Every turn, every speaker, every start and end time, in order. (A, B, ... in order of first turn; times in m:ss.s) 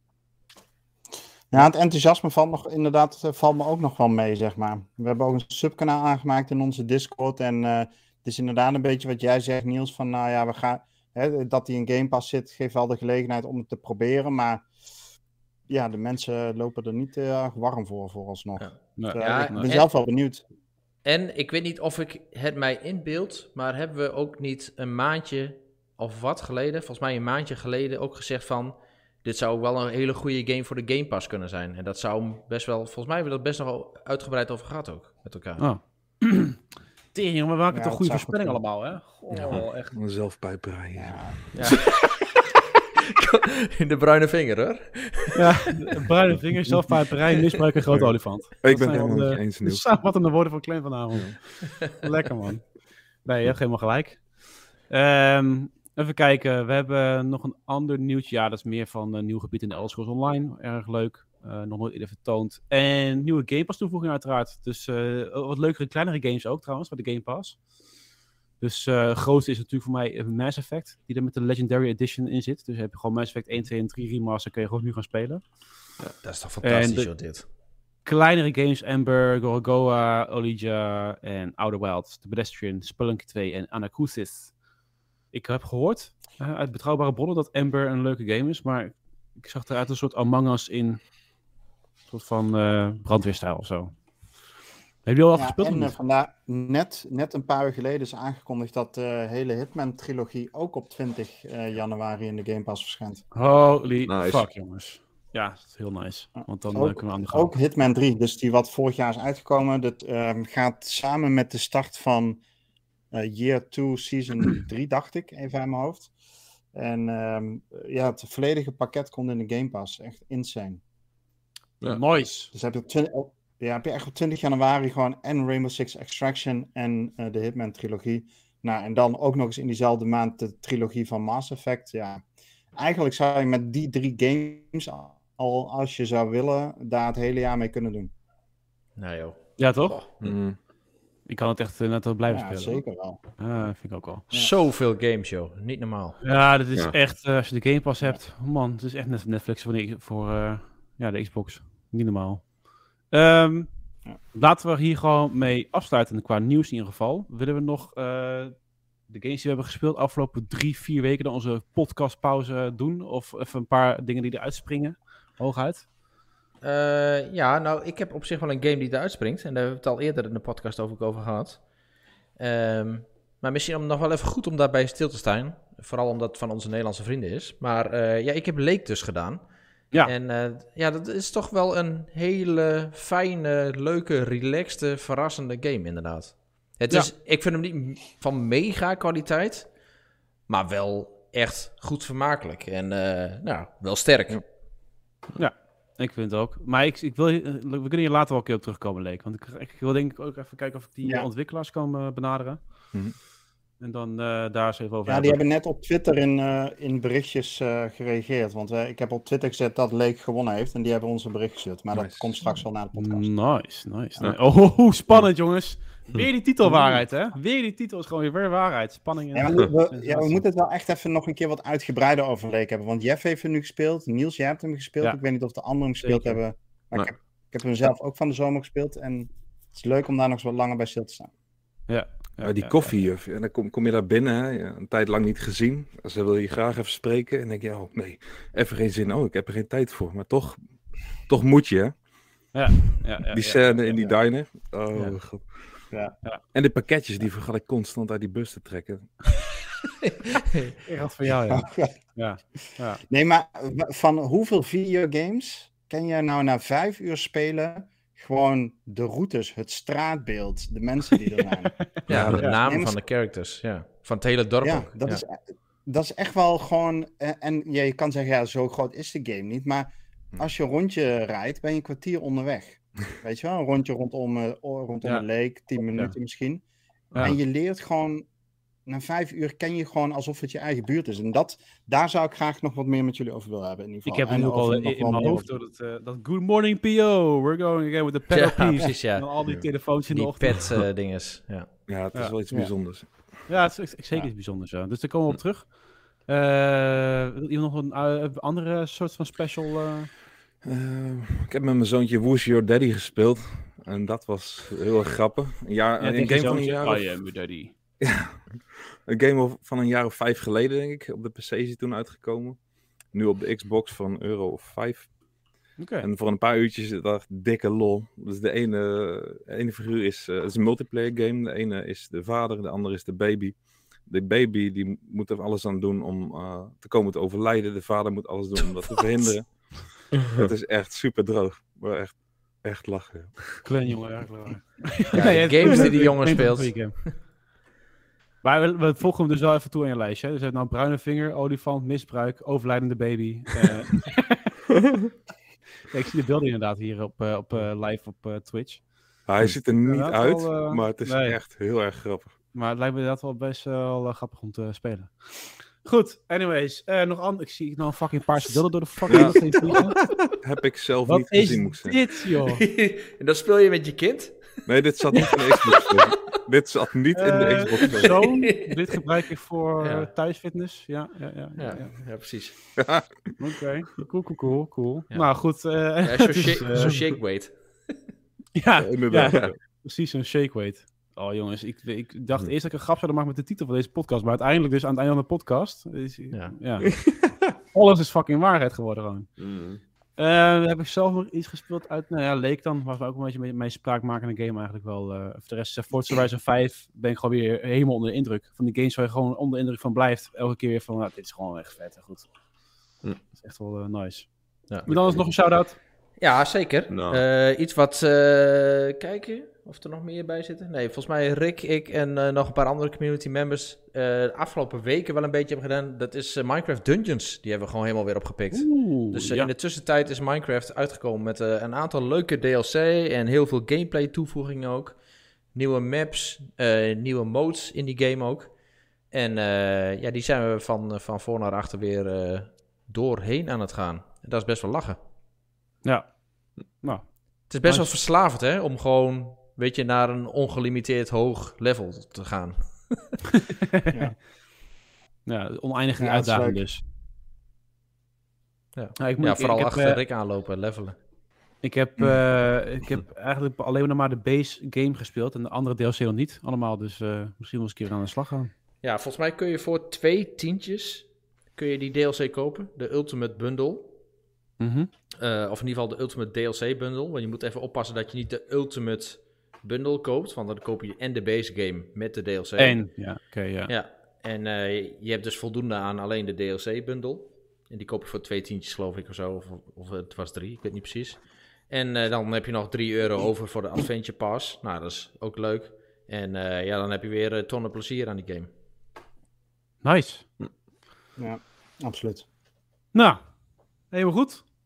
0:01.5-0:14.6 A
0:15.7-0:20.4 A
0:18.6-0:19.9 B
0:19.0-0:19.7 C
0:21.0-0:35.6 B
0:35.6-0:36.6 C
0:37.1-0:40.0 C
0:37.7-0:38.6 A
0:39.3-0:39.6 A
0:39.3-0:39.6 D
0:39.9-0:41.4 E
0:41.0-0:41.4 A
0:41.6-0:42.4 B
0:43.1-0:45.5 B
0:45.4-0:52.6 C
0:48.6-0:49.8 E
0:53.2-1:07.6 C
1:08.6-1:15.4 C
1:16.2-1:17.4 B
1:16.6-1:17.1 C
1:18.0-1:24.5 C
1:25.3-1:31.0 C
1:32.1-1:33.9 C
1:35.1-1:35.9 C
1:35.4-1:43.2 A
1:43.3-1:47.5 C
1:44.1-1:44.5 D
1:46.4-1:52.4 A
1:53.1-1:56.1 A
1:56.7-2:00.8 A
2:01.8-2:02.5 C
2:02.5-2:12.2 A
2:12.8-2:18.1 A
2:19.0-2:19.4 B
2:19.6-2:20.0 C
2:20.2-2:20.6 E
2:21.3-2:22.8 C
2:22.3-2:23.2 A
2:23.4-2:24.2 C
2:24.3-2:26.2 B
2:26.2-2:32.5 C
2:33.1-2:33.7 C
2:34.3-2:38.5 C
2:39.1-2:45.9 C
2:46.6-2:51.6 B
2:52.4-2:59.4 B
3:00.0-3:09.7 B
3:10.5-3:14.4 B
3:15.4-3:22.6 C
3:23.8-3:25.4 C
3:25.1-3:33.3 A
3:31.9-3:32.4 E
3:33.0-3:40.4 C
3:39.3-3:51.3 A
3:46.0-3:46.4 C
3:51.9-3:53.0 C
3:52.4-4:02.0 E
4:02.5-4:04.0 C
4:03.3-4:05.8 E
4:06.5-4:09.4 E
4:10.3-4:10.7 B
4:10.9-4:13.0 C
4:11.5-4:11.9 A
4:13.1-4:21.8 A
4:22.1-4:25.2 B
4:22.1-4:22.4 D
4:22.1-4:22.4 E
4:22.4-4:23.0 A
4:24.6-4:36.6 A
4:37.2-4:38.3 A
4:38.9-4:45.5 A
4:44.1-4:50.8 C
4:48.3-4:49.3 B
4:49.4-4:49.7 E
4:50.0-4:51.7 B
4:51.9-4:53.6 E
4:53.5-5:00.1 C
5:00.6-5:07.2 E
5:06.0-5:07.7 C
5:08.0-5:08.5 E
5:09.1-5:12.6 E
5:13.1-5:15.1 E
5:15.8-5:16.1 C
5:16.0-5:33.4 E
5:30.2-5:30.5 D
5:33.6-5:37.0 C
5:35.1-5:37.2 B
5:38.4-5:44.6 C
5:45.9-5:48.8 C
5:49.3-5:52.3 E
5:49.4-5:51.4 C
5:52.5-6:00.0 C
5:59.1-5:59.8 D
5:59.1-5:59.8 E
6:00.4-6:02.0 E
6:01.1-6:02.7 C
6:02.4-6:06.4 B
6:04.7-6:08.4 E
6:07.2-6:11.9 C
6:07.8-6:09.0 B
6:09.8-6:10.1 B
6:11.6-6:12.6 B
6:12.8-6:13.3 E
6:13.4-6:17.0 C
6:16.0-6:18.0 B
6:18.6-6:26.9 C
6:18.8-6:19.6 E
6:27.1-6:27.3 D
6:27.7-6:29.3 C
6:29.4-6:29.8 D
6:30.2-6:42.3 C
6:43.2-6:45.8 C
6:46.2-7:05.0 B
6:46.9-6:47.2 D
6:58.5-6:59.5 C
7:05.5-7:08.5 B
7:09.1-7:15.0 B
7:15.8-7:16.1 C
7:16.7-7:17.1 C
7:17.5-7:23.2 B
7:17.6-7:17.9 C
7:25.3-7:26.8 C
7:26.0-7:26.6 A
7:28.8-7:31.0 B
7:29.0-7:30.0 C
7:31.6-7:38.5 C
7:38.8-7:43.9 B
7:44.6-7:44.9 C
7:45.2-7:53.0 B
7:52.6-7:53.7 C
7:53.7-8:08.5 B
8:09.8-8:10.2 C
8:11.2-8:12.2 A
8:12.9-8:13.2 C
8:13.9-8:14.4 C